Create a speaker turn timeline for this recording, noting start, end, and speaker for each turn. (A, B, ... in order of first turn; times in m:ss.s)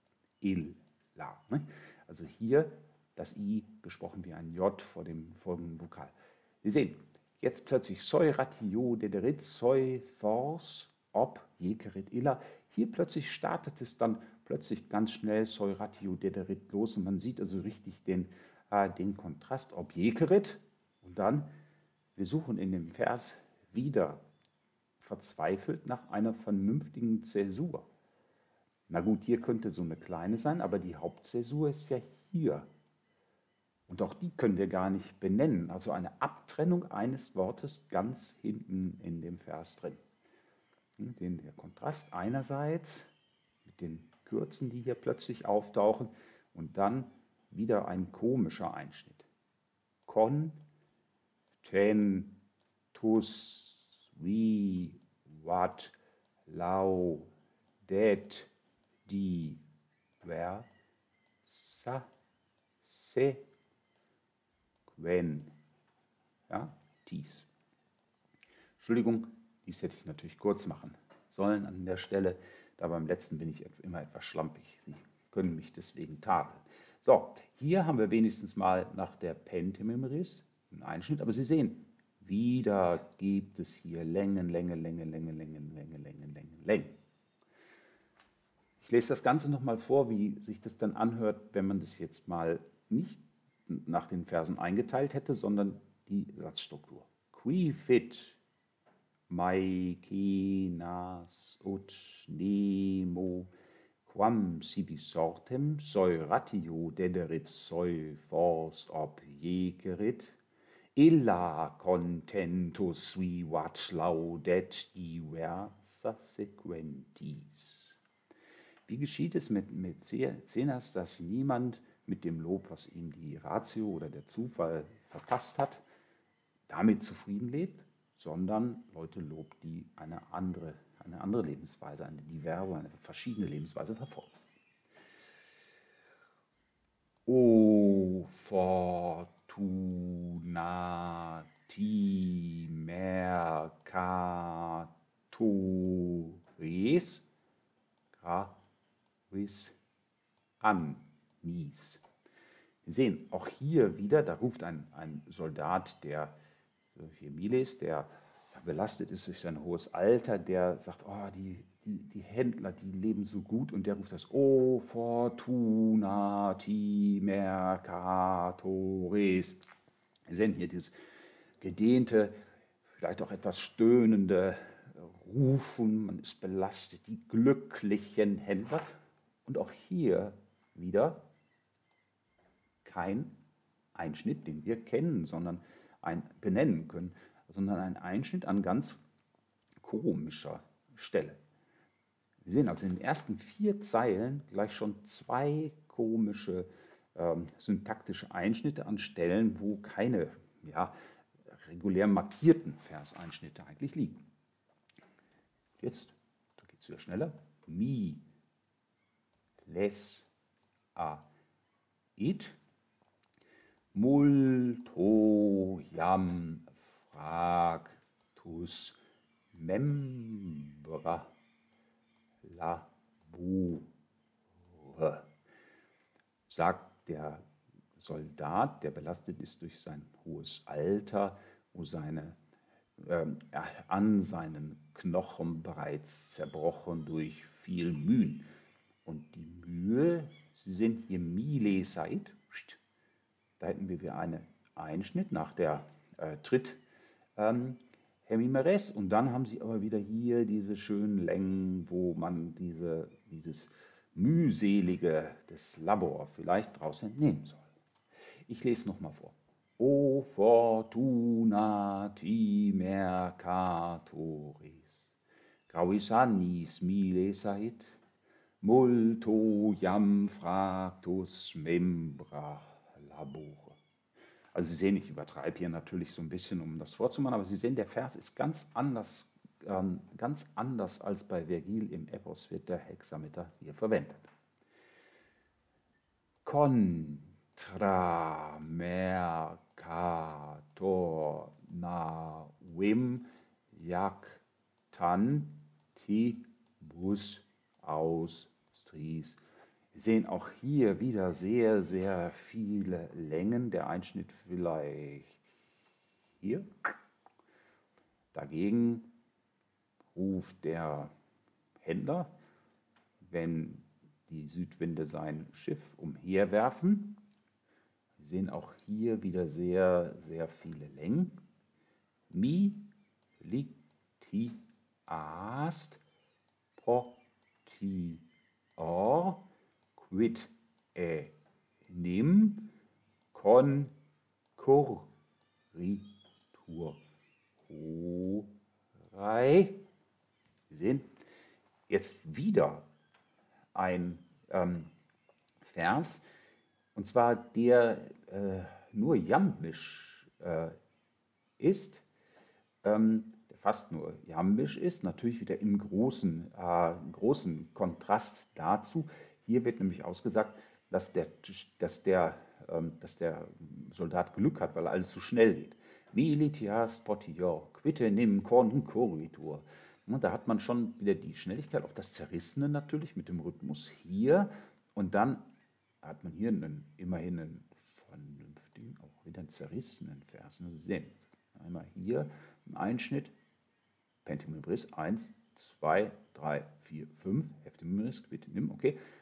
0:00.4-0:21.5 A
0:22.2-0:24.2 A
0:25.0-0:27.9 A
0:28.9-0:32.7 A
0:33.9-0:40.0 A
0:41.0-0:43.1 A
0:43.6-0:49.3 A
0:50.1-0:50.6 A
0:51.6-0:52.4 A
0:52.9-0:56.0 A
0:56.5-0:57.3 A
0:57.8-0:58.5 A
0:59.1-0:59.6 A
1:00.2-1:00.7 A
1:01.4-1:02.1 A
1:02.8-1:03.4 A
1:04.9-1:05.5 A
1:06.5-1:07.5 A
1:08.8-1:27.0 A
1:28.8-1:38.4 A
1:39.3-1:43.5 A
1:44.1-1:50.4 A
1:51.0-1:58.0 A
1:58.9-2:05.8 A
2:06.7-2:14.3 A
2:17.3-2:27.3 A
2:28.2-2:28.6 A
2:29.3-2:29.8 A
2:30.6-2:32.0 A
2:32.8-2:36.4 A
2:37.0-2:49.6 A
2:50.3-2:51.0 A
2:51.6-2:52.4 A
2:53.0-2:58.9 A
2:59.4-3:01.3 A
3:02.8-3:03.3 A
3:04.0-3:09.0 A
3:09.8-3:11.4 A
3:12.4-3:21.0 A
3:21.5-3:24.2 A
3:25.8-3:28.2 A
3:29.6-3:30.3 A
3:31.0-3:31.3 A
3:32.2-3:32.6 A
3:33.9-3:39.0 A
3:39.5-3:41.3 A
3:42.4-3:43.9 A
3:44.7-3:45.3 A
3:46.5-3:47.4 A
3:48.0-3:52.4 A
3:53.0-3:58.5 A
3:59.0-4:02.8 A
4:03.6-4:06.8 A
4:07.4-4:17.7 A
4:18.5-4:25.1 A
4:25.7-4:28.0 A
4:28.6-4:33.8 A
4:34.5-4:44.3 A
4:46.4-4:59.4 A
4:59.9-5:05.4 A
5:06.4-5:06.9 A
5:08.3-5:09.1 A
5:10.1-5:11.1 A
5:11.8-5:12.3 A
5:13.2-5:17.2 A
5:18.2-5:21.4 A
5:22.3-5:22.9 A
5:23.4-5:26.0 A
5:26.8-5:28.2 A
5:28.8-5:31.3 A
5:31.9-5:32.7 A
5:33.3-5:33.9 A
5:34.6-5:35.1 A
5:35.7-5:37.0 A
5:37.7-5:38.5 A
5:39.1-5:39.8 A
5:40.7-5:41.1 A
5:41.9-5:42.9 A
5:43.7-5:44.9 A
5:45.6-5:46.2 A
5:47.0-5:50.8 A
5:51.6-5:52.1 A
5:52.8-6:15.5 A
6:16.0-6:23.3 A
6:24.2-6:29.0 A